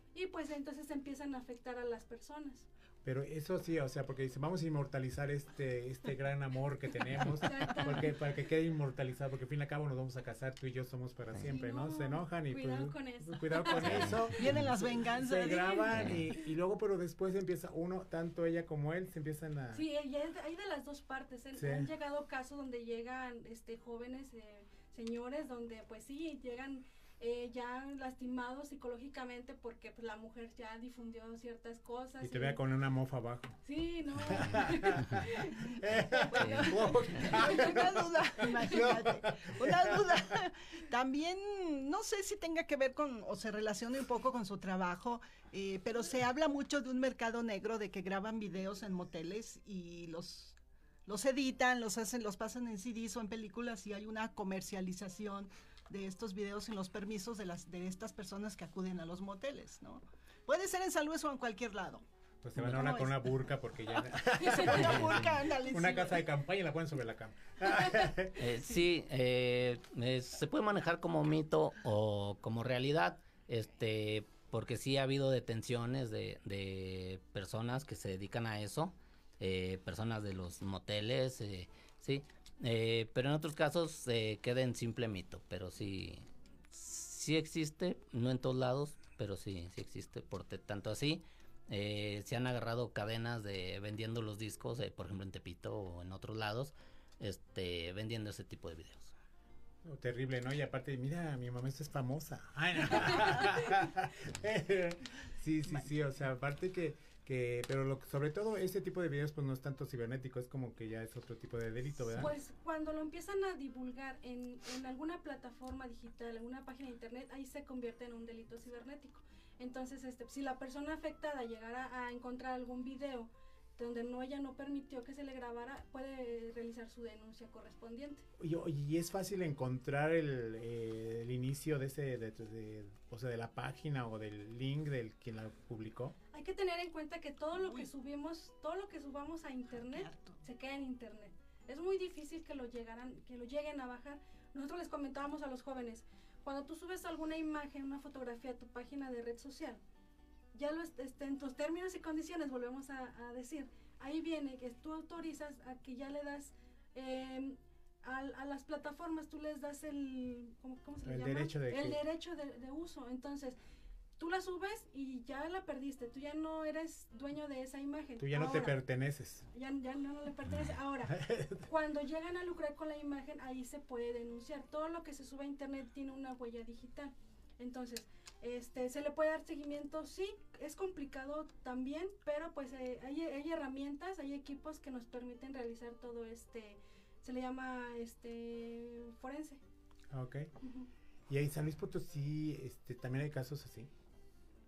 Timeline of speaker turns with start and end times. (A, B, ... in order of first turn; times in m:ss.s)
0:00.1-0:02.7 A
0:03.0-0:19.8 B
0:07.4-0:08.2 A
0:11.4-0:14.2 A
0:13.8-0:16.0 C
0:13.9-0:14.2 D
0:15.9-0:16.2 D
0:19.7-0:32.6 A
0:21.6-0:21.9 B
0:32.2-0:33.6 B
0:33.6-0:37.8 A
0:34.2-0:40.2 B
0:36.3-0:37.4 D
0:36.4-1:02.0 C
1:02.4-1:08.4 B
1:02.6-1:03.2 C
1:04.3-1:06.3 C
1:04.4-1:05.0 A
1:08.4-1:39.1 D
1:39.8-1:52.3 B
1:52.1-2:08.3 A
2:08.4-2:16.2 B
2:16.3-2:29.8 A
2:17.6-2:17.9 C
2:19.7-2:20.4 C
2:30.5-2:43.6 A
2:41.0-2:42.0 B
2:44.2-2:48.8 A
2:48.2-2:49.5 B
2:49.5-3:09.6 A
2:51.1-2:51.6 B
3:10.1-3:10.5 B
3:10.6-3:10.9 A
3:11.3-3:13.9 B